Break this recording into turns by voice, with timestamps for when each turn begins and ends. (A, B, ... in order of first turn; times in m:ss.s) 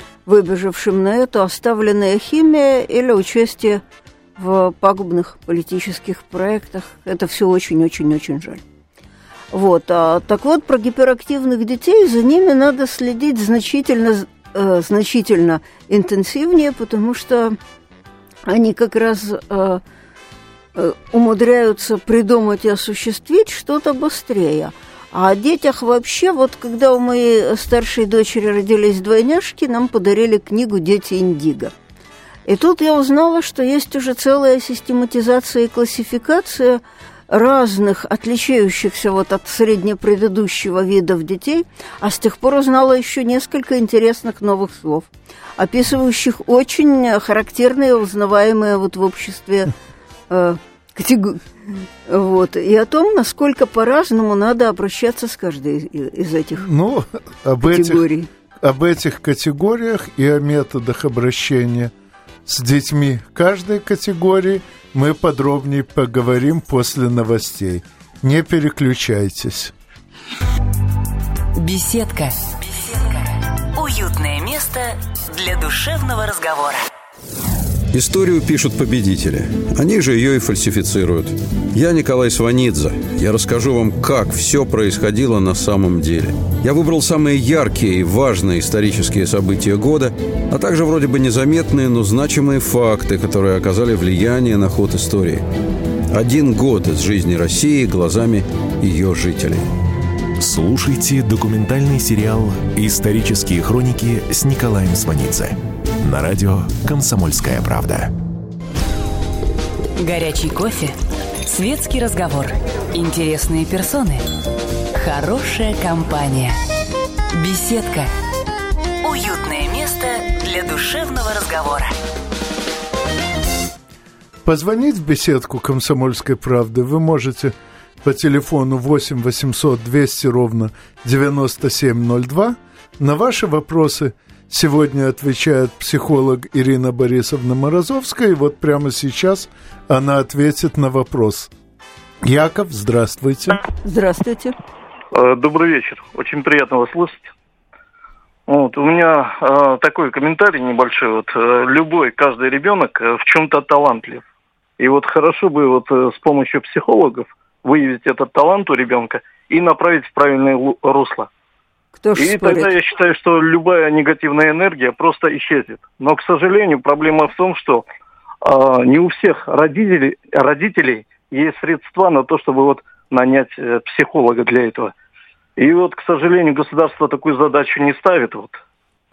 0:00.2-0:03.8 A
0:04.4-0:08.6 A
0:09.5-0:17.6 A
0:18.5-0:19.8 A
0:20.8-0:31.7 A
0:32.5-0:49.7 A
0:50.3-0:56.6 A
0:56.6-0:58.0 B
0:57.6-0:58.3 A
0:58.6-1:01.9 B
1:02.4-1:09.7 B
1:11.6-1:16.8 C
1:17.9-1:35.4 D
1:36.1-1:39.7 D
1:40.4-1:48.1 E
1:50.0-1:54.2 C
1:54.9-1:56.6 C
1:57.3-1:58.1 C
1:59.0-2:01.9 C
2:04.4-2:21.5 B
2:22.2-2:23.6 B
2:23.8-2:24.5 A
2:25.1-2:27.3 F
2:28.5-2:34.2 F
2:34.8-2:41.3 F
2:42.0-2:42.7 A
2:42.2-2:47.8 F
2:48.4-2:54.9 F
2:55.6-2:58.6 F